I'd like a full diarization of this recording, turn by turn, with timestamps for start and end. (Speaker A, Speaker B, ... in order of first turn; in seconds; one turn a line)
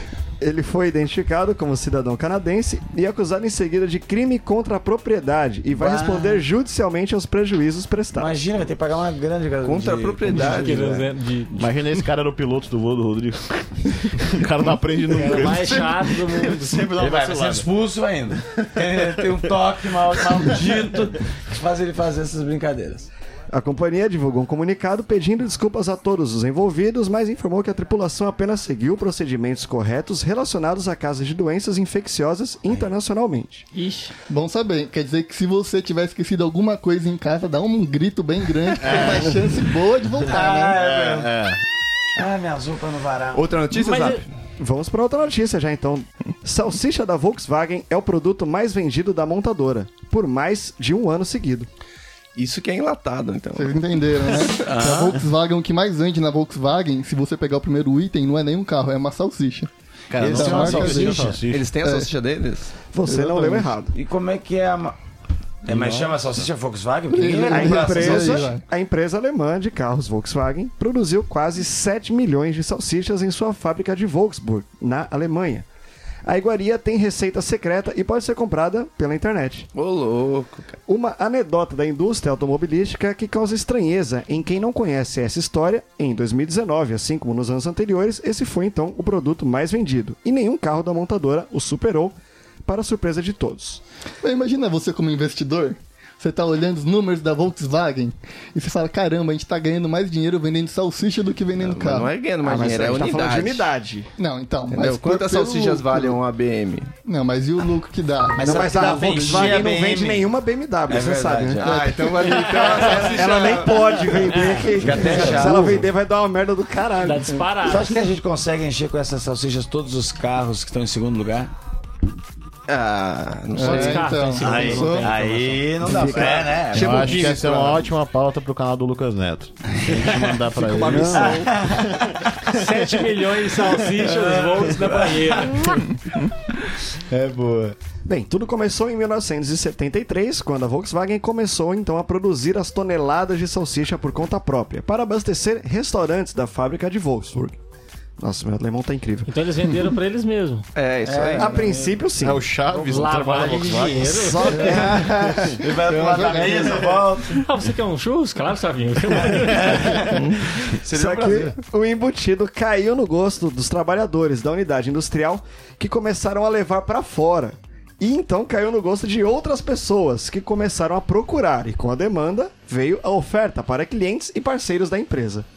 Speaker A: 0.4-8.3
Speaker B: 5.7-6.4
Speaker B: 8.1-11.1
Speaker C: 9.6-11.0
Speaker D: 10.3-11.7
Speaker E: 11.5-17.7
Speaker D: 15.1-16.9
Speaker B: 17.0-23.1
Speaker E: 18.8-19.4
Speaker A: 23.5-33.6
Speaker D: 33.7-34.1
Speaker F: 34.3-40.8
Speaker E: 38.8-39.4
Speaker B: 40.3-41.3
Speaker E: 40.8-41.6
Speaker B: 42.1-43.5
Speaker C: 43.3-44.3
Speaker D: 43.7-44.2
Speaker A: 44.6-51.7
Speaker C: 52.3-53.7
Speaker F: 53.5-59.7
Speaker B: 54.6-55.0
Speaker E: 54.7-55.2
Speaker E: 60.1-61.7
Speaker B: 60.2-61.3
Speaker F: 60.2-61.3
Speaker C: 61.3-62.7
Speaker F: 61.8-62.1
Speaker A: 62.9-63.9
Speaker F: 63.0-63.7
Speaker B: 63.9-65.0
Speaker B: 65.6-68.5
Speaker E: 65.7-66.2
Speaker F: 67.1-68.6
Speaker A: 67.5-75.7
Speaker A: 76.2-79.7
Speaker C: 79.7-80.8
Speaker A: 80.9-93.8
Speaker F: 94.2-102.1
Speaker C: 101.6-103.7
Speaker A: 102.4-104.1
Speaker F: 104.2-106.2
Speaker C: 104.7-106.9
Speaker F: 107.0-109.6
Speaker B: 108.3-110.3
Speaker A: 108.4-111.8
Speaker B: 110.9-113.2
Speaker C: 111.6-114.3
Speaker F: 111.6-112.5
Speaker A: 112.5-117.5
Speaker D: 114.2-115.2
Speaker B: 114.8-115.9
Speaker F: 115.2-115.7
Speaker D: 117.0-118.0
Speaker B: 117.6-121.5
Speaker C: 122.7-124.2
Speaker F: 123.5-125.1
Speaker D: 123.6-126.0
Speaker B: 124.4-127.3
Speaker E: 124.4-124.8
Speaker C: 125.9-127.9
Speaker E: 126.7-133.8
Speaker B: 129.8-130.2
Speaker F: 130.6-131.5
Speaker A: 130.7-131.5
Speaker B: 131.1-132.1
Speaker D: 132.5-135.9
Speaker B: 133.9-135.8
Speaker B: 137.1-137.8
Speaker A: 138.1-147.6
Speaker A: 148.2-149.3
Speaker D: 149.3-150.7
Speaker C: 150.8-151.6
Speaker B: 151.0-151.9
Speaker A: 151.3-152.5
Speaker E: 152.2-154.3
Speaker D: 152.8-155.0
Speaker B: 153.0-157.4
Speaker A: 154.1-155.6
Speaker E: 155.3-155.5
Speaker F: 155.9-156.9
Speaker D: 157.3-160.1
Speaker B: 159.2-161.6
Speaker C: 160.1-160.5
Speaker A: 160.9-175.4